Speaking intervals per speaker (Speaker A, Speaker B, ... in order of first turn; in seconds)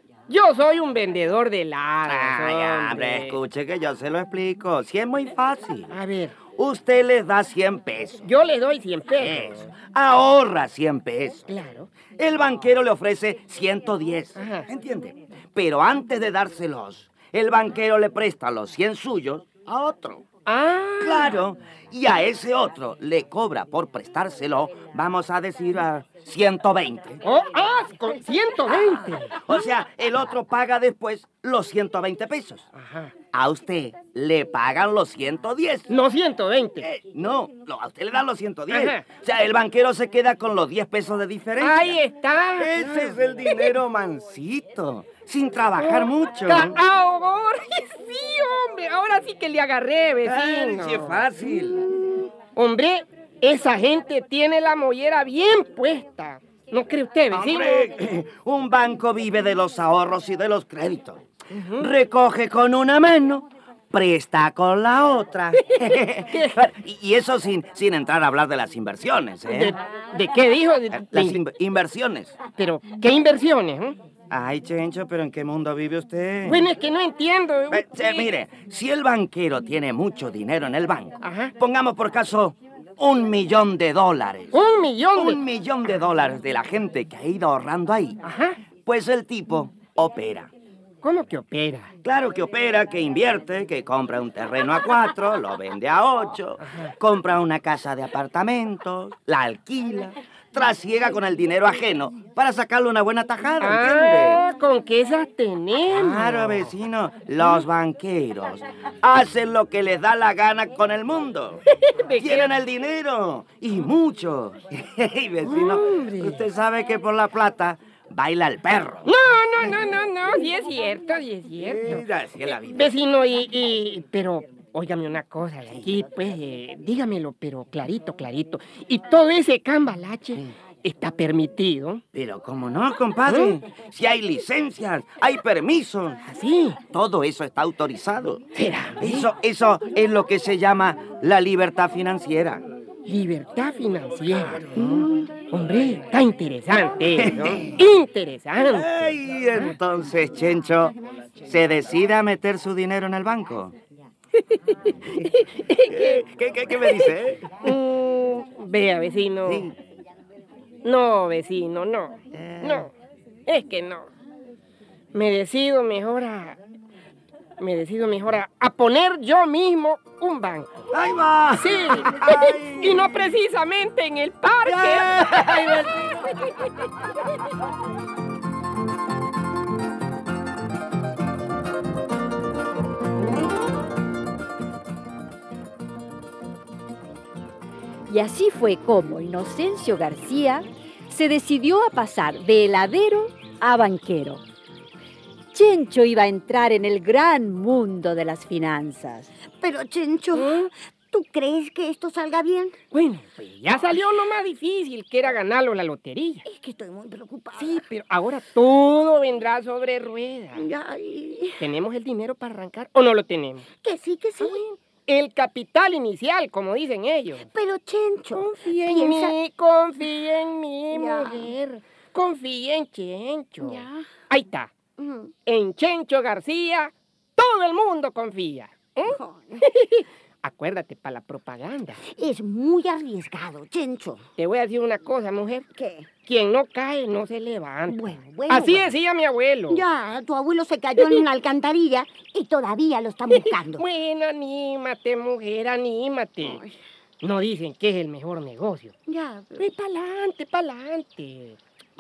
Speaker A: 0.3-3.4, 5.9-6.4, 8.2-9.7, 11.5-11.9, 14.4-14.7, 20.5-21.4, 27.2-29.4, 32.8-33.1, 35.9-36.9, 38.7-39.0, 41.6-43.8, 45.8-51.2, 52.6-57.9, 61.5-61.9, 65.7-66.7, 69.5-71.4, 72.5-74.0, 76.5-78.3, 81.2-81.5, 84.5-85.4, 88.2-88.6, 91.0-91.9, 96.6-96.9, 103.6-106.7, 111.8-112.5, 115.4-116.5, 119.0-122.1, 122.7-132.0, 133.3-133.6, 136.3-136.8, 138.6-139.3, 143.1-149.0, 155.2-156.2, 156.8-159.7, 160.8-162.9, 163.5-164.1, 165.1-166.6, 167.6-170.9, 171.5-176.7, 200.3-200.7, 202.9-206.4, 207.6-210.7, 211.6-213.7, 214.4-217.5, 218.3-224.7, 225.5-232.0, 234.4-235.7, 236.3-239.8, 241.0-241.2, 243.3-246.6, 247.2-248.9, 249.6-251.6
Speaker B: 2.1-5.9, 6.5-8.2, 9.2-11.5, 12.2-20.2, 21.0-27.2, 29.4-32.7, 33.3-35.9, 36.9-42.0, 42.6-46.8, 50.2-51.9, 57.3-61.2, 61.8-69.8, 71.0-72.4, 74.3-76.7, 77.7-84.6, 85.1-88.2, 88.8-90.5, 92.0-104.4, 105.9-111.6, 112.2-119.1, 121.6-122.9, 132.1-136.2, 136.9-138.4, 139.0-142.7, 144.6-145.1, 147.2-147.8, 148.6-150.9, 151.5-153.7, 155.8-157.7, 159.4-159.7, 162.3-162.9, 170.9-173.2, 174.7-176.1
Speaker C: 188.1-194.4, 195.5-199.3
Speaker D: 199.5-202.8, 206.4-207.9, 210.6-211.7, 213.7-214.7, 217.4-219.4, 220.9-221.5, 223.6-224.1, 225.0-225.3, 229.1-229.7, 232.1-234.2, 235.8-236.1, 237.9-238.9, 239.7-243.8, 246.4-246.8, 249.1-249.6